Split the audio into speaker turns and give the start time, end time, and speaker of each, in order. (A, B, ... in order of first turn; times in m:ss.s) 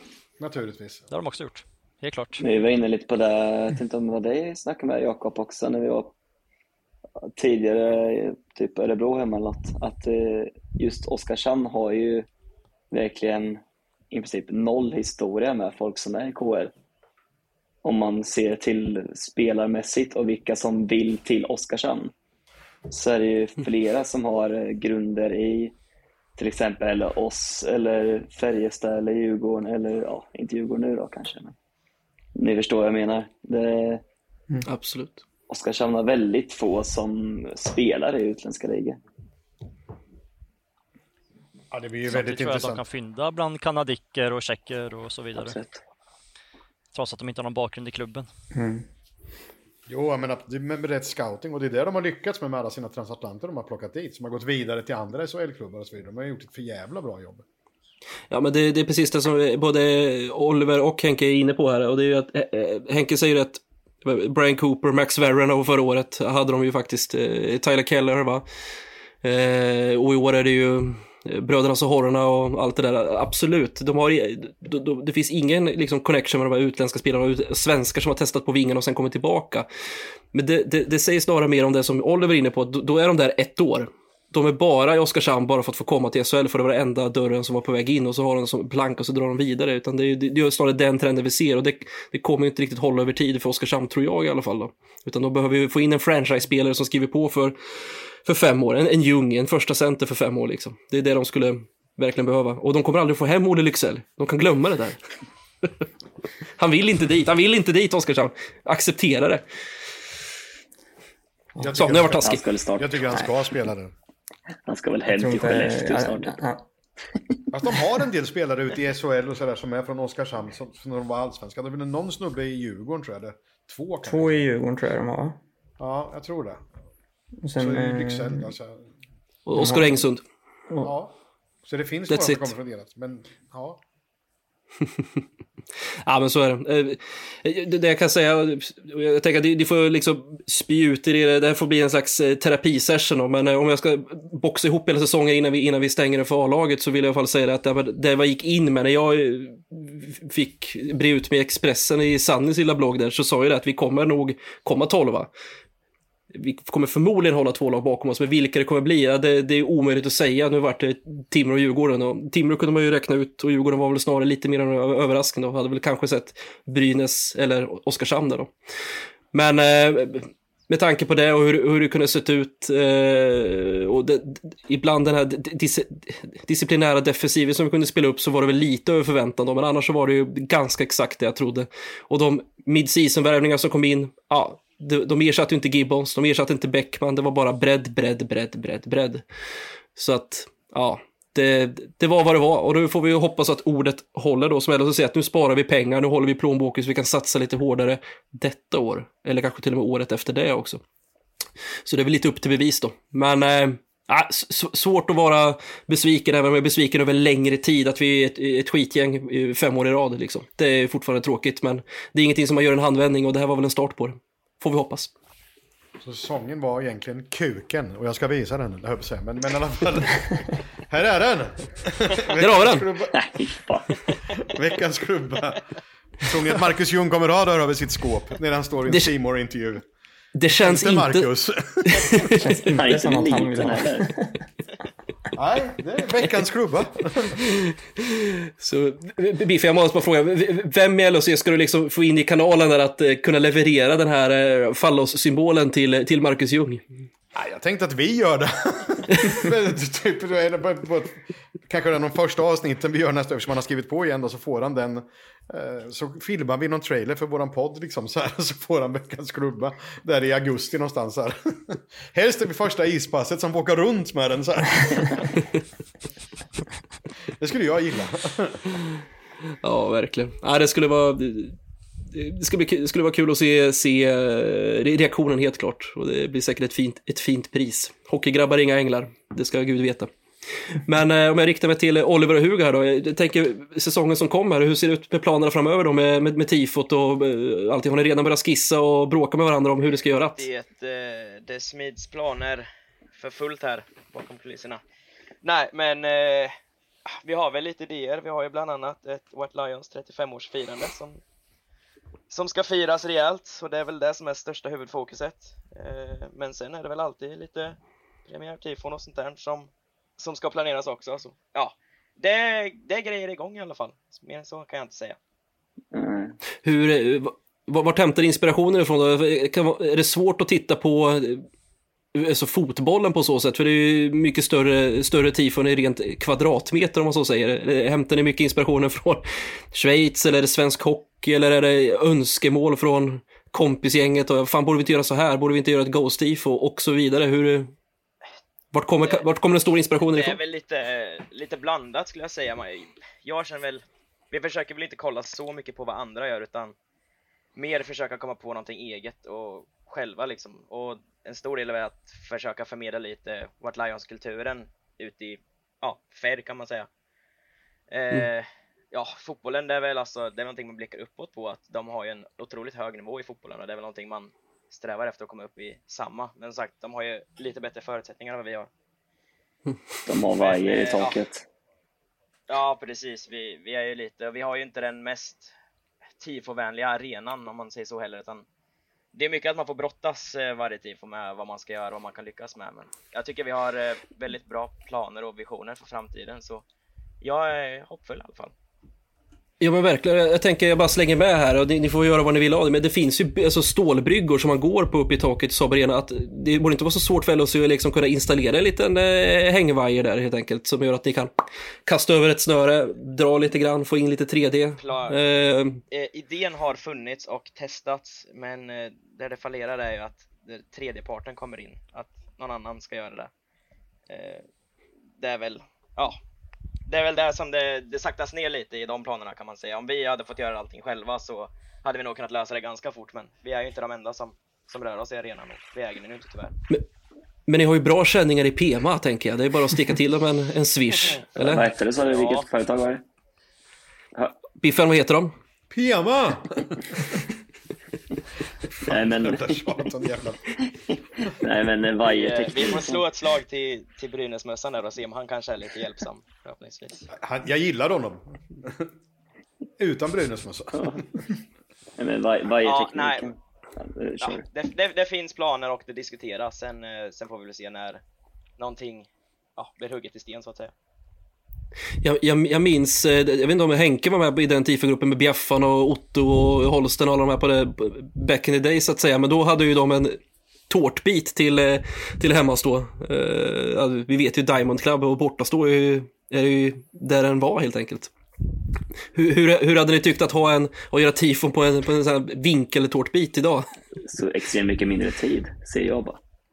0:00.4-0:01.0 A
0:01.1-0:02.4 B
0:02.4-0:06.1 C
0:07.4-0:12.3 C
0:12.9-0:16.7 C
0:17.8-0:22.1 C
0:22.9-0:25.7 C
0:26.4-0:31.6 C
0:32.4-0:34.0 C
0:34.7-0:35.2 D
0:35.5-0:39.0 C
0:41.7-0:42.8 A
0:42.1-0:45.6 B
0:45.4-0:45.8 C
0:46.9-0:48.3 B
0:48.5-0:48.8 E
0:49.9-0:57.4 A
0:58.3-1:08.4 D
1:09.2-1:19.7 D
1:20.3-1:45.0 D
1:46.6-1:49.4 D
1:51.6-1:53.9 A
1:51.7-1:52.4 D
1:52.2-1:53.2 C
1:54.7-1:56.4 C
1:55.1-1:56.6 E
1:57.5-2:04.4 A
2:04.0-2:05.4 E
2:05.8-2:06.6 A
2:07.4-2:08.5 E
2:07.6-2:08.8 A
2:09.5-2:10.2 D
2:09.6-2:09.9 E
2:10.8-2:11.1 A
2:11.6-2:13.8 A
2:12.1-2:12.5 D
2:16.0-2:35.3 D
2:36.3-2:48.5 D
2:49.3-3:09.2 D
3:10.0-3:20.8 D
3:21.8-3:35.1 D
3:36.0-3:43.2 A
3:42.4-3:42.9 D
3:43.1-3:44.1 C
3:44.3-3:45.6 A
3:46.2-3:49.9 A
3:50.4-3:51.3 D
3:50.6-3:52.4 A
3:51.9-3:52.7 D
3:52.4-3:54.4 E
3:52.6-3:54.1 C
3:55.3-3:57.4 A
3:57.4-4:06.8 D
4:07.3-4:25.4 A
4:27.4-4:28.6 A
4:29.6-4:31.6 D
4:32.1-4:50.5 D
4:50.4-4:54.8 F
4:55.4-4:56.5 F
4:57.1-5:01.2 F
5:02.3-5:15.2 F
5:15.9-5:16.4 C
5:16.6-5:21.4 D
5:22.2-5:37.7 D
5:38.7-5:40.4 D
5:40.0-5:46.8 F
5:47.6-5:56.9 F
5:57.9-6:08.7 F
6:10.1-6:11.4 C
6:10.3-6:11.2 F
6:12.5-6:15.5 F
6:16.2-6:18.4 F
6:19.1-6:26.6 F
6:27.2-6:28.5 F
6:29.6-6:41.4 D
6:41.9-6:45.8 D
6:44.8-6:45.3 F
6:45.9-6:53.3 F
6:54.1-6:54.4 F
6:55.2-6:56.2 F
6:56.9-7:06.6 F
7:07.5-7:11.7 D
7:11.4-7:13.0 C
7:12.0-7:12.5 F
7:14.6-7:15.3 D
7:15.7-7:17.2 A
7:18.8-7:20.4 A
7:18.9-7:19.6 C
7:20.9-7:23.0 C
7:22.1-7:27.1 F
7:27.1-7:28.9 A
7:29.8-7:31.3 A
7:32.0-7:34.4 C
7:32.6-7:33.3 F
7:34.2-7:38.0 F
7:38.6-7:40.7 F
7:42.0-7:58.1 D
7:59.1-8:03.7 D
8:04.0-8:06.2 C